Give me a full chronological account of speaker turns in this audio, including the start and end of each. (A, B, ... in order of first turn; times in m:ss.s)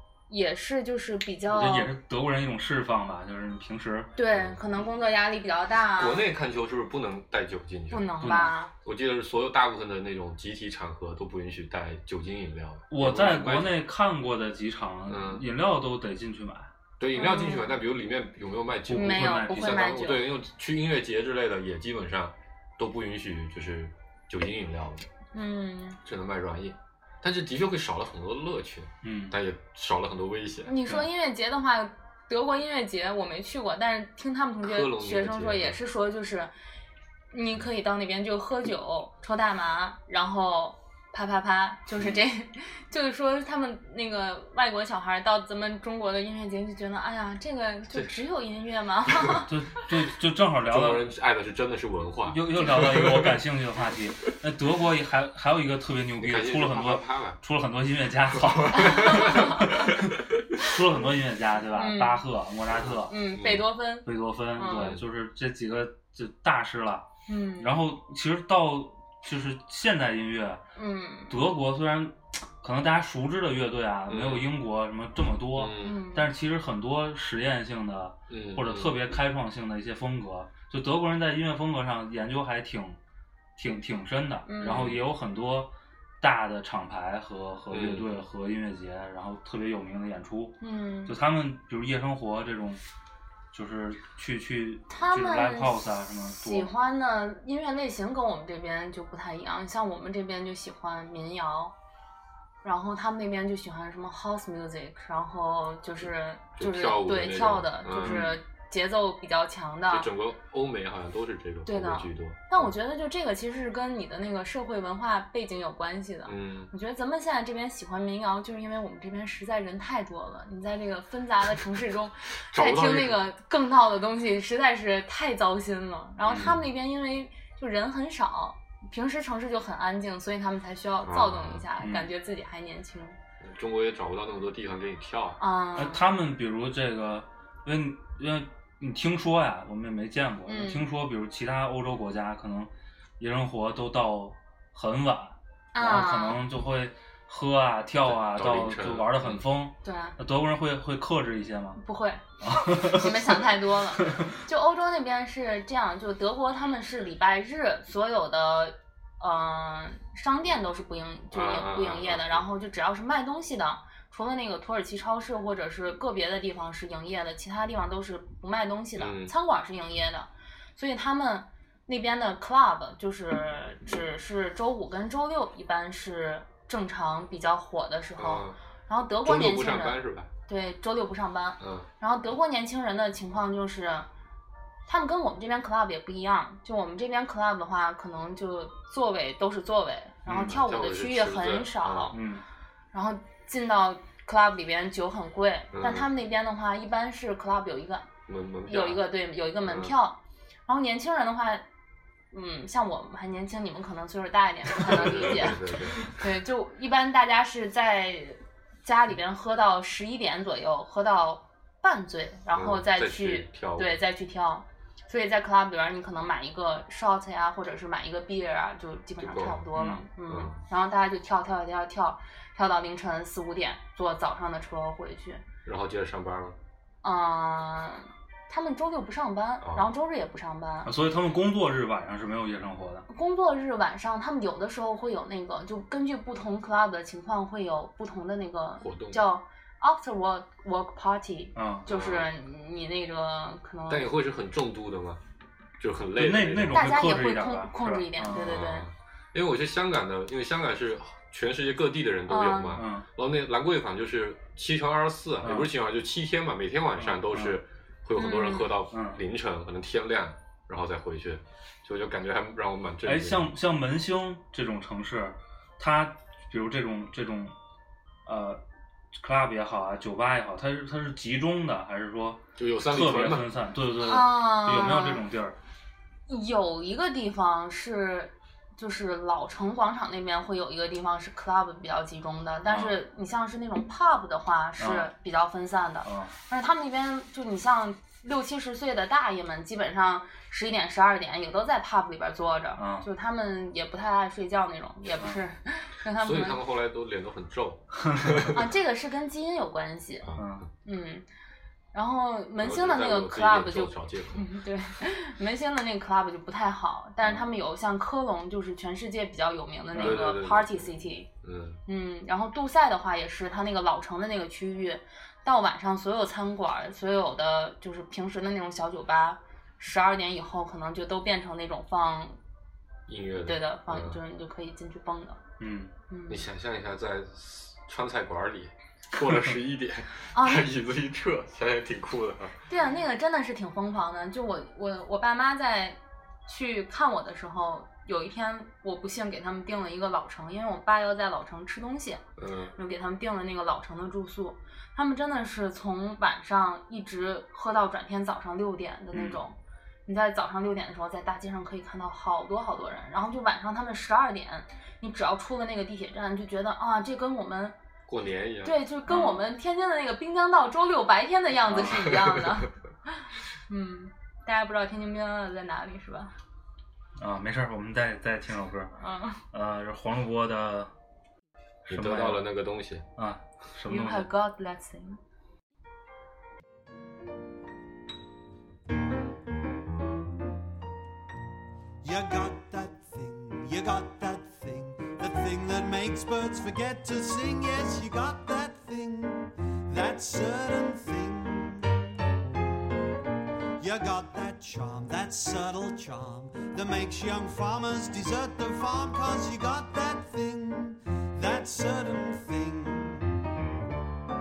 0:00.3-0:01.9 A
0:01.5-0:04.2 B
0:04.2-0:06.3 A
0:06.0-0:08.1 C
0:07.9-0:08.7 A
0:08.2-0:08.6 B
0:08.8-0:13.8 C
0:12.9-0:16.7 B
0:15.1-0:15.4 C
0:17.0-0:25.1 C
0:17.2-0:17.8 A
0:18.9-0:20.0 B
0:18.9-0:20.3 A
0:25.3-0:26.0 A
0:26.0-0:30.7 C
0:29.0-0:29.4 B
0:30.7-0:36.5 A
0:34.6-0:35.8 C
0:37.3-0:49.5 A
0:42.0-0:42.2 C
0:49.5-0:51.1 B
0:50.7-0:53.4 C
0:52.3-1:03.2 B
0:56.2-0:57.4 C
0:58.4-1:00.0 C
0:58.8-0:59.6 A
1:01.8-1:02.2 A
1:02.7-1:03.6 C
1:03.1-1:05.0 A
1:04.0-1:07.1 B
1:04.7-1:05.0 C
1:07.3-1:07.8 A
1:07.6-1:10.6 B
1:10.8-1:11.4 A
1:11.3-1:23.0 B
1:14.1-1:14.5 C
1:15.5-1:16.0 C
1:15.8-1:16.3 A
1:18.3-1:19.0 C
1:23.6-1:32.8 B
1:24.5-1:24.9 A
1:24.7-1:25.0 C
1:27.7-1:28.2 C
1:30.6-1:31.2 A
1:33.5-1:36.7 B
1:34.9-1:41.7 A
1:42.6-1:50.1 A
1:46.6-1:48.3 C
1:48.0-1:48.4 B
1:49.9-1:52.7 C
1:51.7-2:13.2 A
1:56.3-1:56.7 C
2:02.5-2:03.2 C
2:06.3-2:06.7 C
2:11.0-2:11.6 C
2:11.8-2:12.1 B
2:13.4-2:15.4 C
2:15.4-2:16.0 A
2:15.8-2:31.8 B
2:20.5-2:20.9 A
2:25.7-2:26.4 A
2:28.0-2:29.5 C
2:29.8-2:30.2 A
2:31.8-3:04.1 A
2:32.4-2:33.5 B
2:41.3-2:42.5 C
2:49.0-2:49.3 C
2:58.2-2:58.6 C
2:59.2-3:00.3 C
3:01.6-3:01.9 C
3:04.9-3:12.2 A
3:10.3-3:12.2 C
3:12.1-3:12.4 B
3:12.9-3:18.1 A
3:15.7-3:16.1 C
3:18.3-3:19.0 C
3:18.7-3:21.6 A
3:19.7-3:19.9 C
3:22.3-3:45.4 A
3:24.8-3:26.1 C
3:32.5-3:34.0 C
3:39.2-3:39.7 C
3:39.8-3:40.0 B
3:40.3-3:40.6 C
3:45.6-3:46.6 C
3:47.0-3:50.9 A
3:49.6-3:49.9 C
3:50.8-3:53.1 B
3:53.1-4:04.1 A
3:58.8-3:59.2 C
4:01.6-4:01.9 B
4:01.9-4:02.3 C
4:03.9-4:05.2 C
4:05.8-4:06.9 C
4:06.2-4:08.6 B
4:06.7-4:08.9 A
4:08.4-4:23.5 C
4:12.3-4:12.8 A
4:12.8-4:13.1 B
4:15.4-4:15.7 B
4:17.0-4:17.6 B
4:18.2-4:18.7 A
4:18.9-4:19.2 B
4:23.0-4:27.5 B
4:28.3-4:28.6 B
4:29.2-4:35.6 B
4:32.6-4:33.5 C
4:34.0-4:35.2 A
4:36.3-4:56.6 A
4:42.7-4:43.0 B
4:44.8-4:45.1 B
4:46.0-4:46.4 B
4:52.8-4:53.1 B
4:56.2-4:58.6 C
4:58.0-4:58.5 B
4:58.5-5:00.3 A
5:00.2-5:00.6 C
5:00.4-5:00.7 B
5:00.8-5:01.3 A
5:01.9-5:11.3 A
5:02.6-5:04.5 C
5:09.9-5:10.4 B
5:10.0-5:11.8 C
5:11.9-5:22.4 A
5:23.1-5:24.2 C
5:23.4-5:25.4 A
5:25.6-5:25.9 B
5:26.1-5:26.5 A
5:26.3-5:32.6 C
5:30.3-5:30.7 A
5:32.7-5:42.2 A
5:42.4-5:42.8 C
5:42.8-5:57.8 A
5:49.1-5:49.4 B
5:58.1-5:58.7 C
5:58.6-6:06.4 A
5:59.1-5:59.4 B
6:01.7-6:02.1 B
6:07.2-6:08.9 B
6:09.0-6:09.4 A
6:09.5-6:10.9 B
6:11.8-6:12.5 B
6:11.9-6:13.0 C
6:13.2-6:14.3 B
6:13.9-6:15.2 A
6:22.0-6:32.0 D
6:33.8-6:43.4 D